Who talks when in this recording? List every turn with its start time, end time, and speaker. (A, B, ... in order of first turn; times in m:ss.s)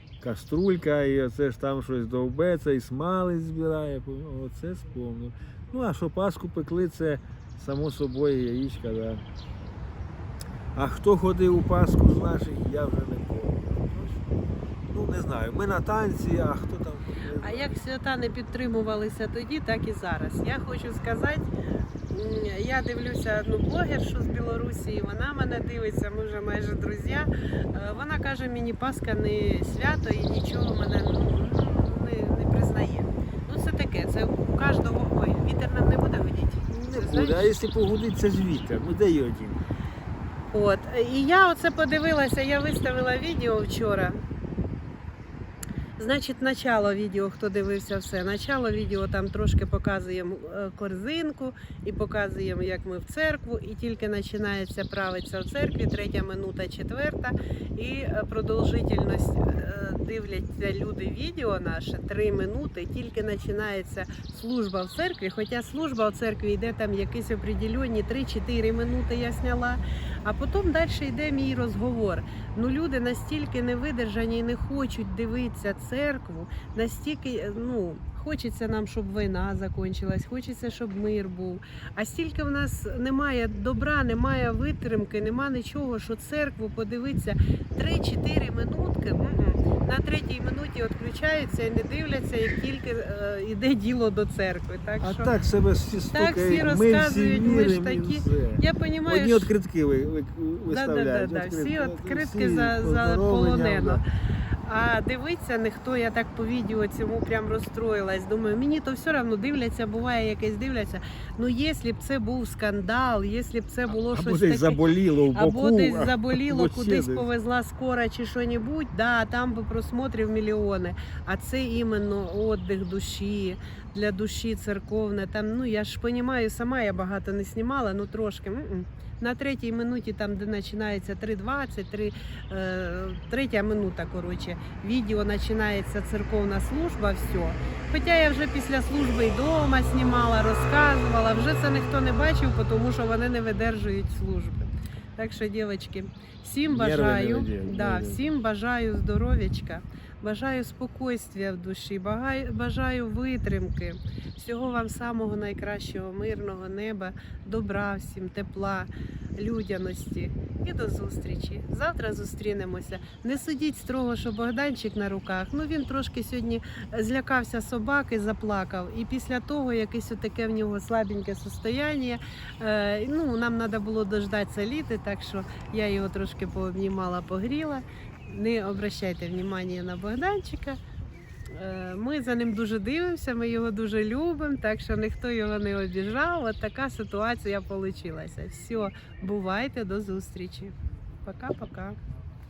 0:00.2-0:09.2 A
0:10.8-0:14.2 A
0:14.9-0:17.8 A
0:17.4-0:21.5 B
0:22.1-0:37.6 B
0:36.8-0:39.6 A
0:40.5-0:44.2 B
0:46.0-1:35.3 B
1:35.0-1:44.0 A
1:36.1-1:39.5 B
1:40.7-1:44.0 B
1:44.6-1:54.8 B
1:54.1-1:57.3 A
1:55.3-3:00.8 B
2:26.7-2:28.2 A
3:01.5-3:12.0 B